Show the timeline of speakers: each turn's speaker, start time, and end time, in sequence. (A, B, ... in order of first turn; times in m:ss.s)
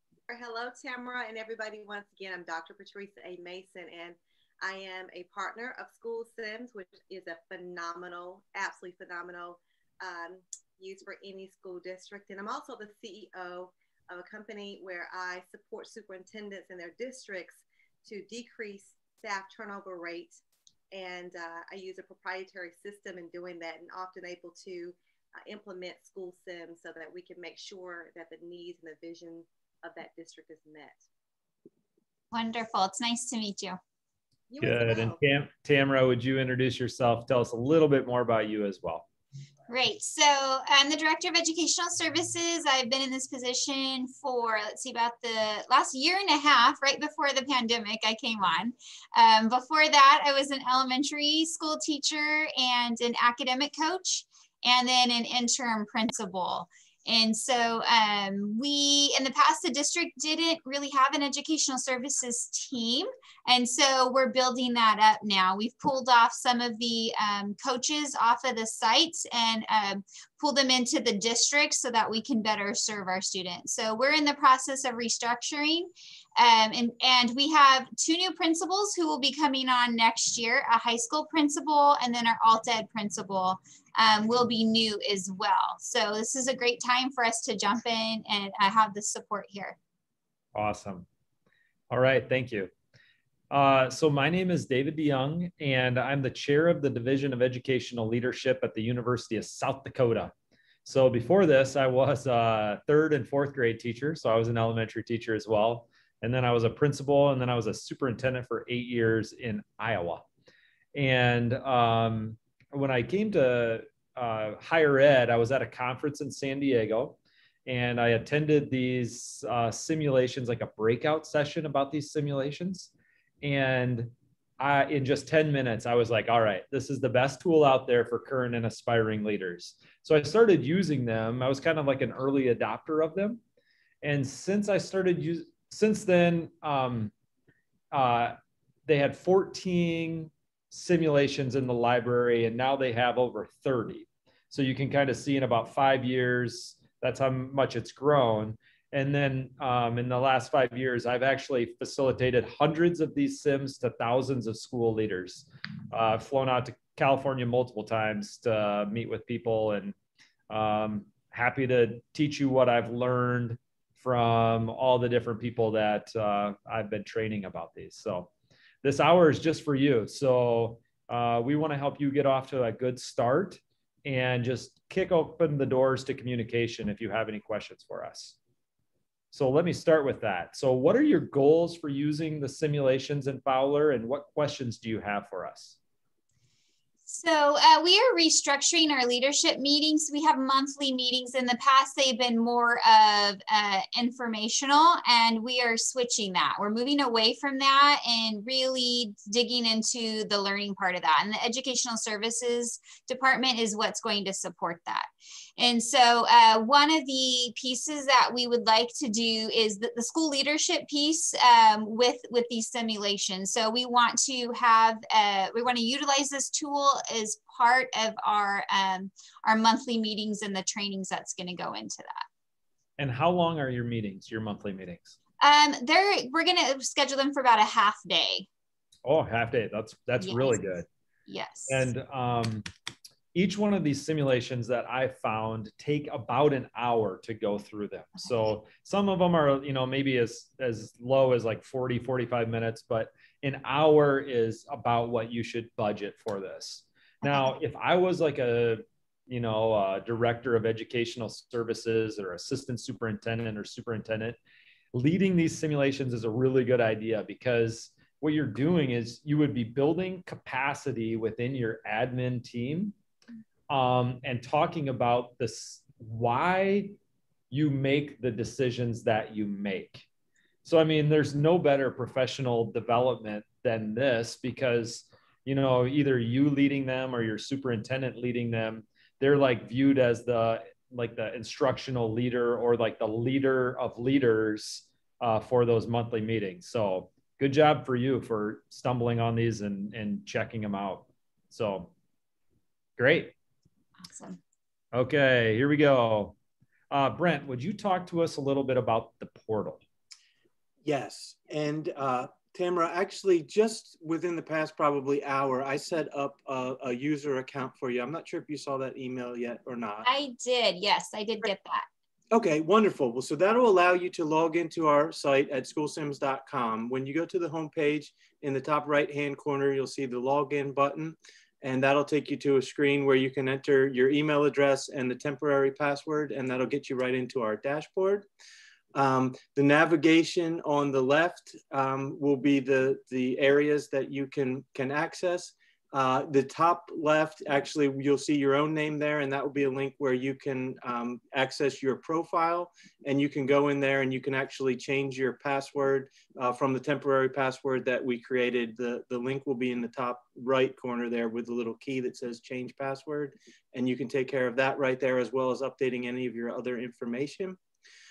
0:00.3-0:20.4 A
0:20.9-0:31.0 A
0:32.3-0:33.8 B
0:34.5-0:35.2 A
0:34.6-0:39.1 C
0:39.7-1:29.8 B
1:30.5-1:31.1 C
1:31.9-1:32.7 C
1:33.5-1:40.3 C
1:40.8-1:50.2 C
1:50.9-2:13.4 C
2:14.0-2:17.1 C
2:17.9-2:40.0 C
2:40.5-2:48.3 C
2:48.8-2:58.4 C
2:59.3-3:05.7 C
3:07.1-3:42.2 B
3:43.0-3:45.2 C
3:45.4-3:48.5 B
3:49.0-3:50.9 C
3:50.2-3:50.6 B
3:51.3-3:51.9 B
3:51.7-3:52.7 C
3:53.3-4:14.4 C
4:07.2-4:07.5 B
4:14.9-4:23.0 C
4:23.7-4:27.0 C
4:27.5-4:30.0 C
4:30.6-4:51.9 C
4:53.0-4:53.4 C
4:54.1-4:54.4 B
4:54.9-4:56.4 C
4:56.9-4:59.8 C
5:00.8-5:10.1 D
5:10.0-5:11.9 B
5:12.3-5:28.3 D
5:29.0-5:57.6 D